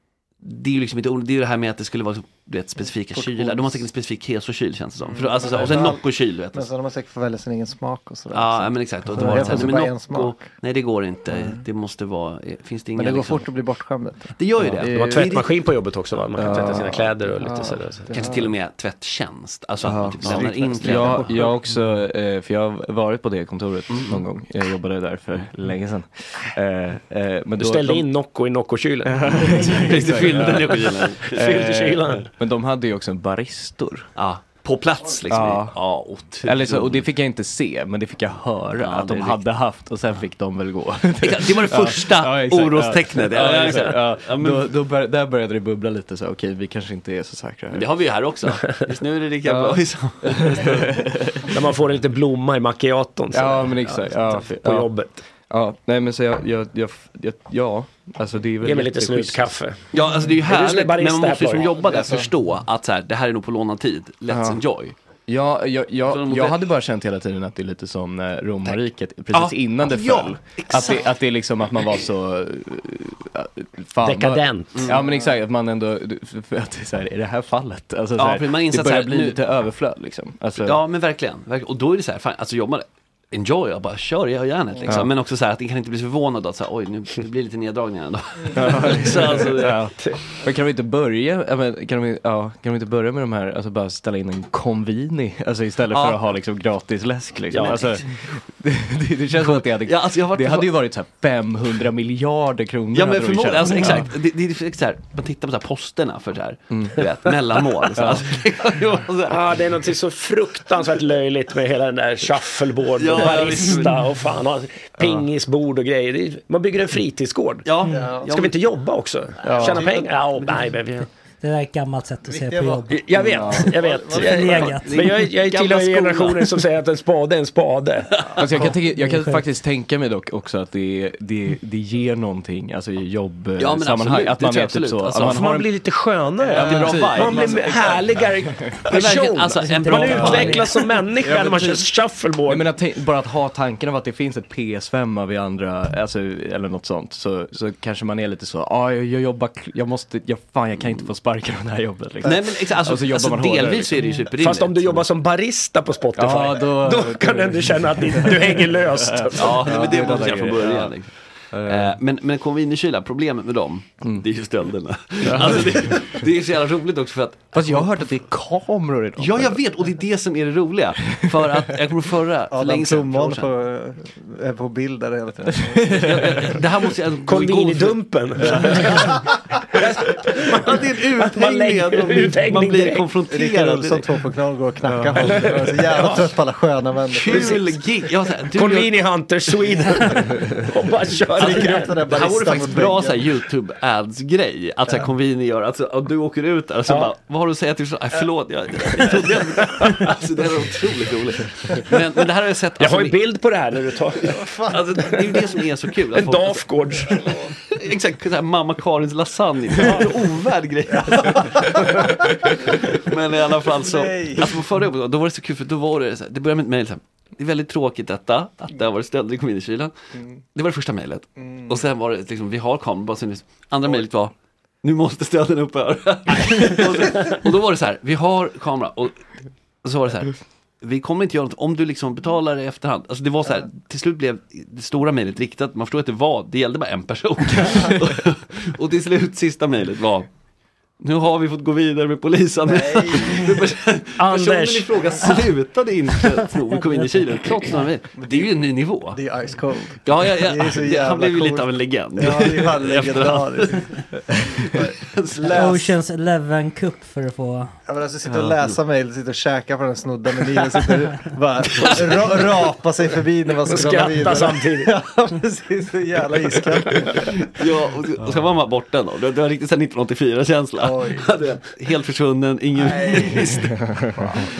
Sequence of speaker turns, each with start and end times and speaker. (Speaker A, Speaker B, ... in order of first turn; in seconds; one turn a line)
Speaker A: 0.4-6.7
Speaker B: 3.1-3.9
Speaker B: 5.1-10.5
Speaker A: 8.3-13.5
Speaker C: 9.1-9.8
Speaker B: 11.3-11.6
Speaker B: 12.9-14.4
Speaker A: 14.4-15.5
Speaker C: 14.6-15.3
Speaker D: 14.9-18.1
Speaker C: 16.4-17.2
Speaker B: 17.4-18.5
Speaker A: 18.1-21.4
Speaker C: 19.8-28.0
Speaker A: 23.9-24.2
Speaker D: 27.6-29.6
Speaker C: 29.0-34.1
Speaker A: 29.6-31.6
Speaker D: 30.3-30.6
Speaker D: 31.3-32.3
Speaker A: 34.1-37.0
Speaker C: 35.3-35.7
Speaker C: 36.4-47.9
Speaker A: 38.8-39.4
Speaker A: 41.2-44.7
Speaker D: 43.4-43.8
Speaker A: 47.7-50.9
Speaker C: 49.4-51.6
Speaker D: 51.5-55.2
Speaker C: 53.3-54.9
Speaker C: 55.5-59.5
Speaker D: 58.6-59.8
Speaker A: 59.9-64.9
Speaker D: 60.5-61.7
Speaker B: 61.7-62.3
Speaker C: 64.3-64.6
Speaker C: 65.3-80.8
Speaker A: 66.1-66.6
Speaker A: 69.3-71.1
Speaker D: 74.0-74.9
Speaker A: 74.7-75.0
Speaker B: 75.0-75.3
Speaker A: 78.2-79.4
Speaker A: 80.6-89.8
Speaker B: 84.7-85.0
Speaker C: 84.8-85.1
Speaker C: 88.5-104.1
Speaker A: 95.9-96.2
Speaker D: 97.5-98.0
Speaker A: 99.4-100.7
Speaker A: 102.9-109.4
Speaker C: 106.7-107.0
Speaker C: 107.9-108.2
Speaker D: 109.2-121.1
Speaker A: 113.0-114.0
Speaker A: 117.6-118.5
Speaker B: 117.8-118.3
Speaker B: 119.4-120.1
Speaker C: 119.4-119.9
Speaker E: 121.4-123.0
Speaker B: 122.3-124.8
Speaker D: 122.9-128.1
Speaker C: 123.3-123.7
Speaker E: 123.5-125.1
Speaker A: 124.8-126.5
Speaker A: 128.2-128.5
Speaker C: 128.4-135.7
Speaker E: 128.9-129.4
Speaker A: 133.6-135.6
Speaker D: 135.2-142.6
Speaker A: 136.4-138.0
Speaker B: 136.5-138.0
Speaker C: 136.6-137.4
Speaker A: 138.9-140.7
Speaker E: 139.6-140.8
Speaker C: 140.2-140.5
Speaker C: 141.2-141.8
Speaker C: 142.5-154.1
Speaker A: 152.2-155.0
Speaker D: 154.4-160.3
Speaker C: 156.2-160.9
Speaker A: 159.3-161.1
Speaker C: 161.5-161.9
Speaker A: 161.6-167.8
Speaker C: 165.2-166.0
Speaker C: 167.5-169.6
Speaker A: 169.2-173.5
Speaker B: 172.5-176.3
Speaker C: 175.6-176.4
Speaker A: 176.0-178.0
Speaker D: 177.2-179.2
Speaker C: 178.4-179.0
Speaker A: 178.5-178.8
Speaker D: 179.7-183.1
Speaker A: 180.6-184.1
Speaker B: 183.3-187.6
Speaker C: 184.8-185.6
Speaker A: 187.1-190.2
Speaker D: 187.3-187.7
Speaker D: 188.5-192.0
Speaker B: 191.3-193.2
Speaker A: 191.4-203.2
Speaker D: 202.8-204.4
Speaker B: 204.3-205.3
Speaker A: 204.7-212.1
Speaker D: 206.1-207.2
Speaker B: 210.9-212.2
Speaker A: 212.7-219.9
Speaker B: 213.7-214.6
Speaker A: 220.5-229.2
Speaker B: 221.4-221.7
Speaker A: 229.8-240.3
Speaker A: 241.0-249.2
Speaker B: 242.6-243.6
Speaker D: 244.2-245.2
Speaker E: 246.4-247.8
Speaker B: 248.2-248.5
Speaker B: 249.1-254.0
Speaker A: 250.0-253.9
Speaker A: 254.6-255.8
Speaker B: 254.7-255.9
Speaker E: 255.5-257.8
Speaker B: 257.9-267.4
Speaker A: 258.3-258.8
Speaker A: 261.7-262.6
Speaker D: 263.7-264.9
Speaker A: 267.5-273.8
Speaker B: 270.8-271.5
Speaker B: 272.7-274.4
Speaker C: 273.7-274.3